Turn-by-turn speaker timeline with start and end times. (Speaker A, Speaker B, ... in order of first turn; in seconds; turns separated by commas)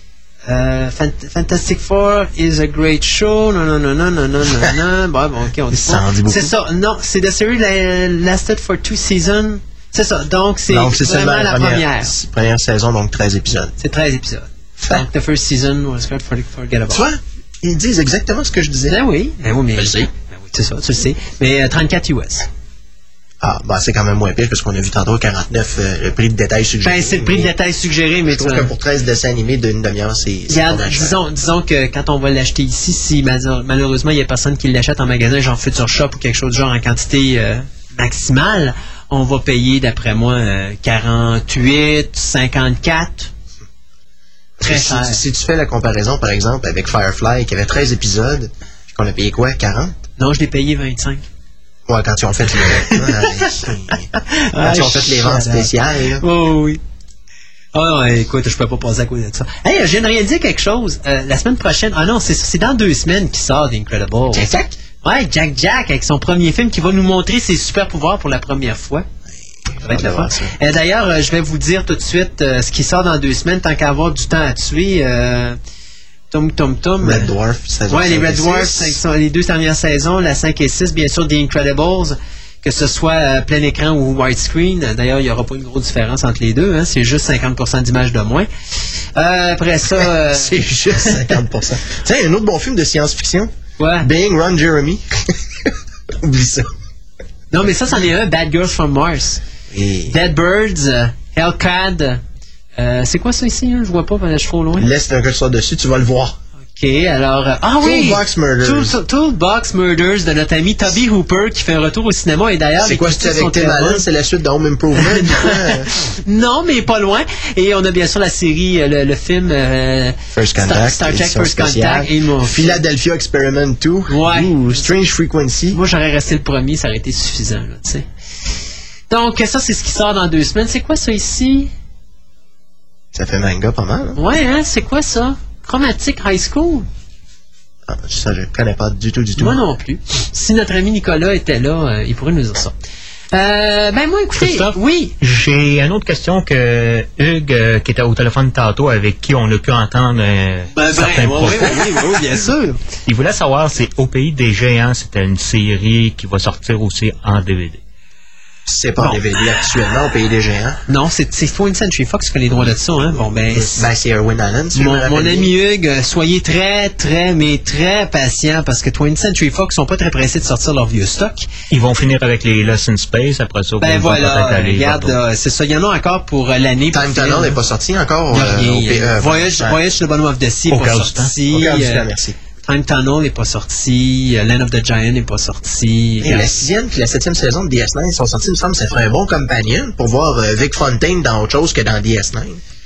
Speaker A: 0.5-12.1, Speaker B: 5.7-6.5, Speaker B: 10.7-13.7, Speaker A: 13.8-17.0, Speaker B: 16.9-19.0, Speaker A: 18.9-22.5, Speaker B: 19.8-20.1, Speaker B: 23.4-27.5, Speaker A: 26.8-28.7, Speaker B: 28.3-31.2, Speaker A: 30.5-43.3, Speaker A: 44.6-45.2, Speaker B: 44.6-50.0, Speaker A: 50.2-51.2, Speaker B: 51.9-56.2, Speaker A: 52.8-53.6, Speaker A: 54.1-56.8, Speaker A: 57.7-64.5, Speaker B: 64.3-64.7, Speaker A: 65.0-69.1, Speaker B: 69.7-70.5, Speaker A: 69.8-75.6, Speaker A: 76.3-77.3, Speaker B: 77.0-79.0, Speaker A: 77.9-88.5, Speaker A: 89.2-91.3, Speaker B: 89.9-96.7, Speaker A: 93.8-94.1, Speaker A: 97.5-99.4, Speaker B: 99.7-100.2, Speaker A: 100.1-102.2, Speaker A: 102.8-104.9, Speaker B: 104.8-106.4, Speaker A: 106.7-114.0, Speaker B: 107.8-109.0, Speaker B: 112.8-115.9, Speaker A: 115.0-122.8, Speaker B: 120.3-125.8, Speaker A: 124.1-124.5, Speaker A: 125.7-128.1, Speaker A: 129.1-131.7, Speaker B: 133.1-134.2, Speaker A: 134.2-136.9, Speaker B: 137.9-139.6, Speaker A: 139.4-142.7, Speaker A: 143.3-145.2, Speaker C: 144.4-152.2, Speaker A: 150.7-152.8, Speaker C: 153.1-157.8, Speaker B: 158.7-160.8, Speaker A: 159.0-159.7, Speaker A: 160.9-163.9, Speaker B: 163.5-165.5, Speaker A: 164.7-171.5, Speaker C: 171.7-175.2, Speaker A: 173.8-177.6, Speaker B: 176.9-179.8, Speaker A: 178.3-182.1, Speaker C: 180.7-181.3, Speaker B: 181.4-182.4, Speaker A: 182.7-186.5, Speaker B: 186.2-192.6